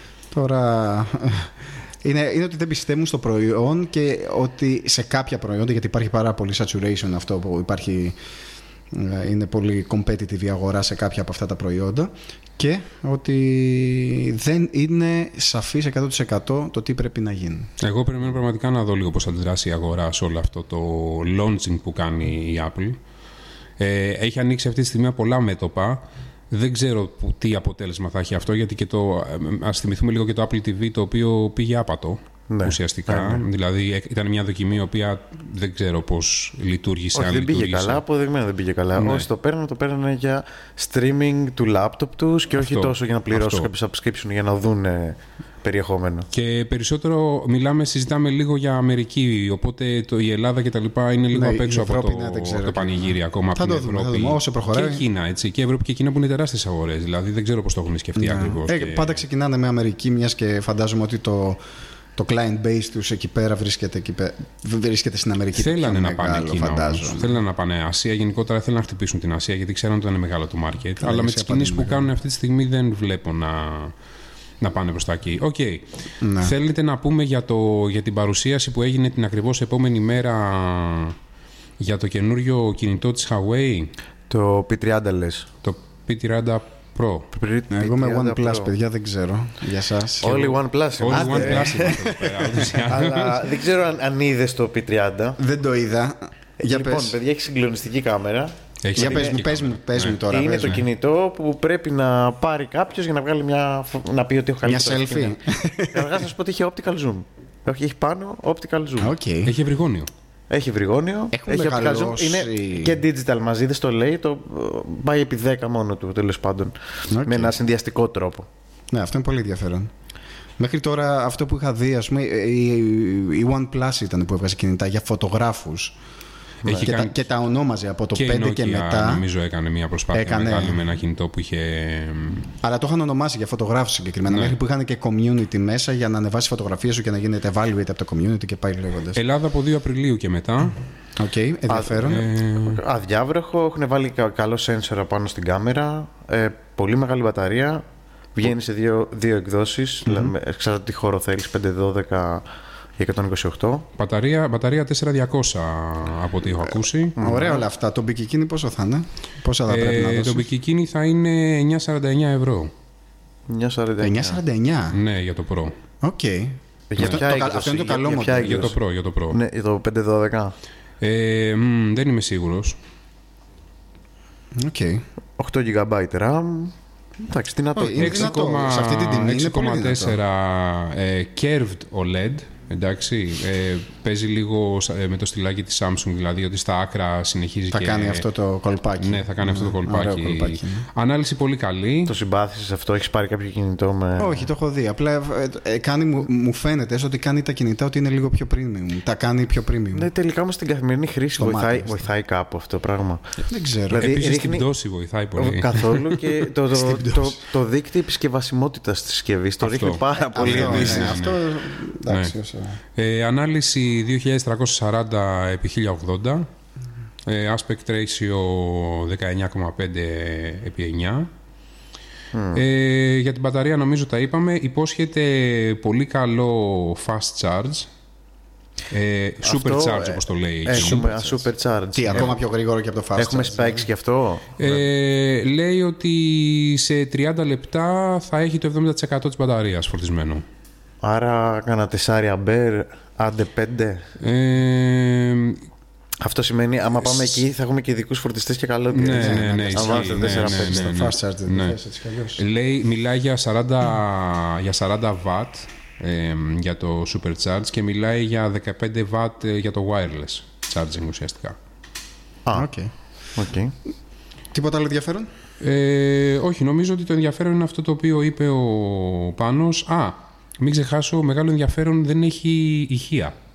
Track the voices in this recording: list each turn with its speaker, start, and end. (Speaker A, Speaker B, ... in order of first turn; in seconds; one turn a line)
Speaker A: 0.3-8.2
Speaker A: 8.9-17.7
Speaker B: 17.8-23.0
Speaker B: 23.8-38.0
Speaker C: 32.5-33.4
Speaker C: 37.1-46.3
Speaker B: 39.0-39.3
Speaker B: 42.5-43.7
Speaker B: 46.3-59.2
Speaker A: 51.3-55.0
Speaker A: 58.1-61.6
Speaker A: 62.2-67.3
Speaker B: 65.6-73.9
Speaker A: 71.0-72.1
Speaker B: 74.6-75.9
Speaker A: 76.2-76.5
Speaker B: 76.4-81.2
Speaker B: 81.8-83.9
Speaker C: 84.3-85.5
Speaker B: 85.6-87.3
Speaker C: 87.3-88.7
Speaker A: 87.7-90.5
Speaker C: 90.2-91.8
Speaker B: 90.2-93.5
Speaker A: 91.1-93.2
Speaker C: 92.8-95.4
Speaker A: 95.4-97.2
Speaker C: 96.6-99.4
Speaker B: 98.8-100.2
Speaker A: 98.9-100.8
Speaker C: 100.3-105.4
Speaker A: 104.6-106.2
Speaker C: 105.9-109.1
Speaker A: 109.0-109.5
Speaker B: 109.4-110.1
Speaker C: 110.5-118.5
Speaker A: 111.3-113.0
Speaker A: 117.1-117.5
Speaker A: 118.9-119.9
Speaker A: 120.6-126.0
Speaker B: 126.6-127.1
Speaker A: 126.8-129.2
Speaker B: 128.1-132.5
Speaker A: 130.1-130.8
Speaker A: 132.6-139.2
Speaker B: 134.3-134.6
Speaker B: 139.1-140.8
Speaker A: 141.2-142.3
Speaker C: 141.7-147.8
Speaker B: 142.0-142.8
Speaker C: 148.3-152.4
Speaker A: 150.1-150.3
Speaker C: 153.0-153.9
Speaker B: 154.0-157.4
Speaker C: 157.2-157.6
Speaker A: 157.2-160.5
Speaker B: 159.7-162.7
Speaker C: 163.5-164.4
Speaker A: 164.0-165.0
Speaker B: 164.9-165.7
Speaker A: 166.0-168.8
Speaker C: 166.9-168.8
Speaker B: 168.3-169.4
Speaker C: 169.3-170.5
Speaker B: 171.0-172.8
Speaker A: 174.6-175.0
Speaker C: 175.4-178.3
Speaker A: 177.8-180.2
Speaker B: 178.0-188.2
Speaker A: 187.7-190.8
Speaker B: 189.0-192.1
Speaker C: 192.1-194.4
Speaker A: 194.2-200.1
Speaker C: 199.9-203.3
Speaker A: 201.3-201.9
Speaker A: 203.5-204.1
Speaker C: 203.9-204.7
Speaker B: 203.9-206.2
Speaker C: 205.3-211.2
Speaker A: 206.7-207.4
Speaker B: 209.6-211.5
Speaker A: 210.3-212.8
Speaker B: 212.1-212.3
Speaker B: 212.9-216.5
Speaker B: 217.2-221.3
Speaker C: 222.3-222.6
Speaker B: 222.5-227.9
Speaker B: 228.9-231.3
Speaker C: 229.4-232.4
Speaker A: 230.7-231.1
Speaker A: 231.9-233.9
Speaker C: 233.2-234.8
Speaker B: 234.6-240.4
Speaker C: 241.0-244.1
Speaker B: 244.2-245.6
Speaker C: 246.2-250.9
Speaker B: 248.9-251.8
Speaker A: 249.1-252.4
Speaker B: 252.4-261.5
Speaker A: 262.5-262.9
Speaker C: 263.4-263.7
Speaker A: 264.5-265.3
Speaker B: 265.6-273.3